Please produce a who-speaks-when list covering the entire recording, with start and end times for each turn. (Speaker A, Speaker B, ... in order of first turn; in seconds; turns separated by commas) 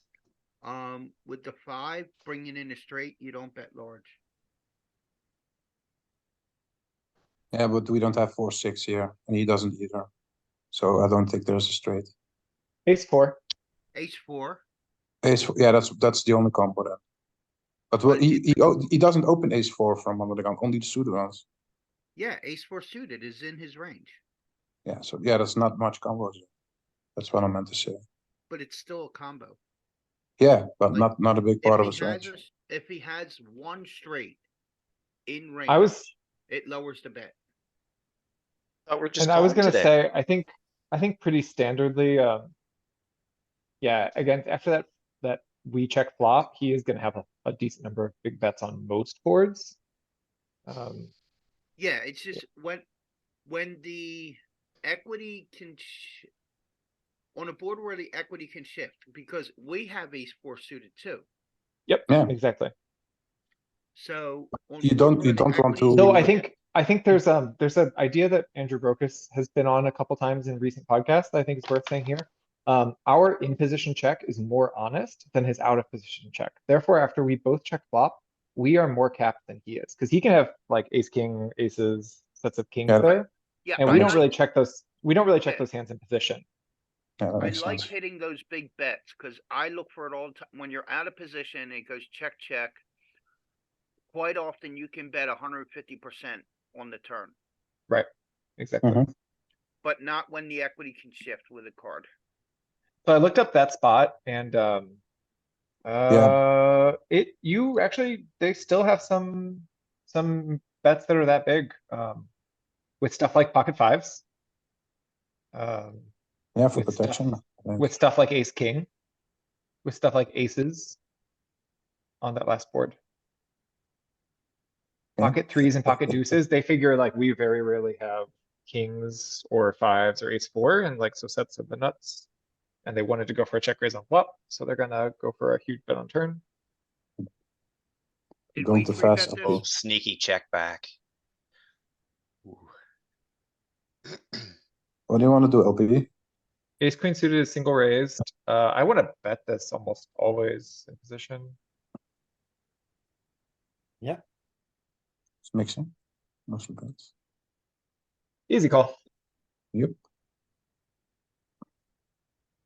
Speaker A: 0.6-4.2, Speaker B: 7.5-10.1, Speaker B: 10.7-12.1, Speaker C: 12.9-13.4, Speaker A: 13.9-14.6, Speaker B: 15.2-17.0, Speaker B: 17.9-21.4, Speaker A: 18.1-18.7, Speaker A: 22.2-24.2, Speaker B: 24.9-26.5, Speaker B: 27.2-28.0, Speaker A: 28.5-29.6, Speaker B: 30.4-32.3, Speaker A: 31.6-34.4, Speaker A: 35.3-35.9, Speaker C: 35.7-36.1, Speaker A: 36.5-37.4, Speaker D: 38.9-39.9, Speaker C: 39.2-42.5, Speaker C: 43.8-49.8, Speaker C: 50.7-51.1, Speaker A: 51.8-52.9, Speaker A: 53.5-56.3, Speaker A: 57.4-61.2, Speaker C: 61.9-62.7, Speaker A: 64.0-66.5, Speaker B: 64.8-66.3, Speaker C: 65.9-86.5, Speaker A: 83.1-84.3, Speaker B: 83.8-84.2, Speaker B: 87.2-87.9, Speaker A: 87.4-92.8, Speaker A: 94.1-97.3, Speaker C: 98.6-99.0, Speaker B: 98.8-99.1, Speaker A: 99.8-102.1, Speaker C: 103.1-105.0, Speaker C: 105.9-112.3, Speaker B: 106.1-106.4, Speaker C: 113.0-114.2, Speaker C: 115.5-116.1, Speaker B: 116.6-117.9, Speaker C: 116.8-117.3, Speaker C: 117.8-118.9, Speaker C: 119.8-121.0, Speaker C: 122.2-123.0, Speaker B: 125.2-126.3, Speaker C: 125.2-132.3, Speaker C: 132.8-136.4, Speaker A: 138.5-139.6, Speaker B: 138.6-139.6, Speaker D: 139.4-140.9, Speaker D: 142.4-142.7, Speaker B: 145.1-146.1, Speaker C: 146.8-151.6, Speaker B: 155.4-155.9, Speaker B: 156.5-157.1, Speaker C: 158.5-159.0